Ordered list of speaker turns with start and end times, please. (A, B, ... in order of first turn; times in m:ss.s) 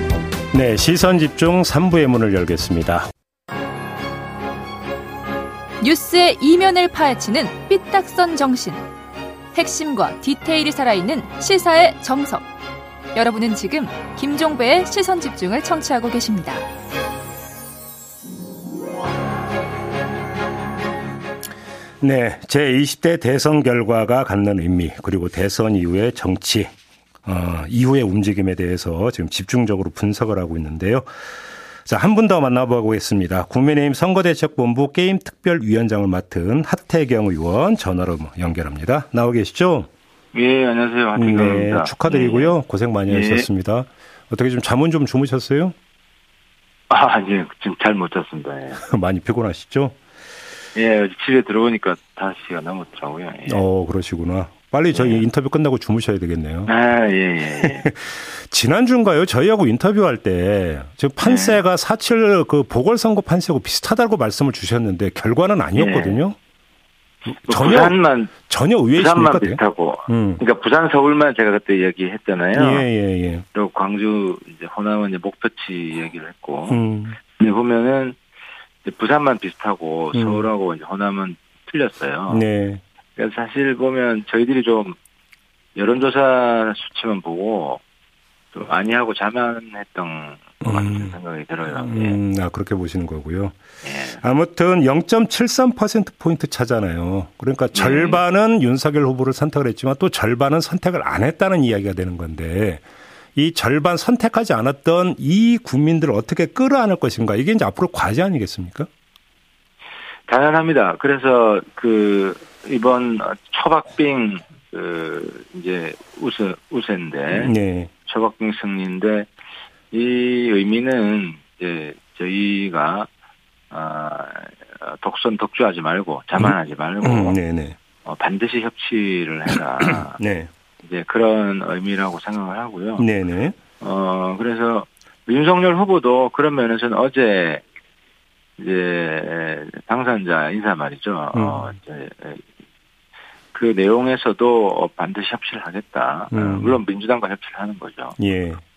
0:00.5-0:03.1 A
0:05.8-0:08.8 B
0:09.5-0:12.4 B
0:13.1-0:16.6 B
0:22.0-0:26.7 A
0:27.2-0:31.1 A
0:31.8-0:39.9 A
0:40.3-0:42.5 C
0:41.2-0:45.7 A
0:43.1-0:43.4 C
0:46.9-0:48.8 C
0:48.8-0:50.0 A
0:50.7-0:53.6 C
0:53.5-0:56.7 A
0:54.9-0:55.2 C
0:56.7-0:57.9 C
0:57.6-1:06.4 A
1:01.2-1:01.6 C
1:05.8-1:06.2 C
1:07.3-1:10.4 A
1:07.4-1:08.3 C
1:08.9-1:12.9 C
1:12.5-1:13.4 A
1:13.5-1:16.8 C
1:16.7-1:17.2 A
1:17.4-1:18.2 C
1:18.8-1:22.4 C
1:20.1-1:20.5 A
1:22.3-1:22.8 A
1:23.2-1:25.0 C
1:25.8-1:27.8 C
1:28.5-1:32.2 C
1:30.6-1:31.2 A
1:31.8-1:33.6 A
1:33.8-1:34.2 C
1:34.1-1:42.8 A
1:37.7-1:38.2 C
1:43.4-1:48.9 A
1:50.3-1:59.3 C
1:57.3-1:57.9 A
1:59.9-2:03.1 C
2:03.7-2:07.4 C
2:06.4-2:07.8 A
2:08.0-2:10.2 C
2:10.1-2:10.5 A
2:10.8-2:13.0 C
2:13.0-2:13.6 A
2:13.8-2:17.6 C
2:18.6-2:22.4 C
2:21.3-2:21.7 A
2:23.5-2:28.2 C
2:26.3-2:26.8 A
2:28.2-2:28.6 A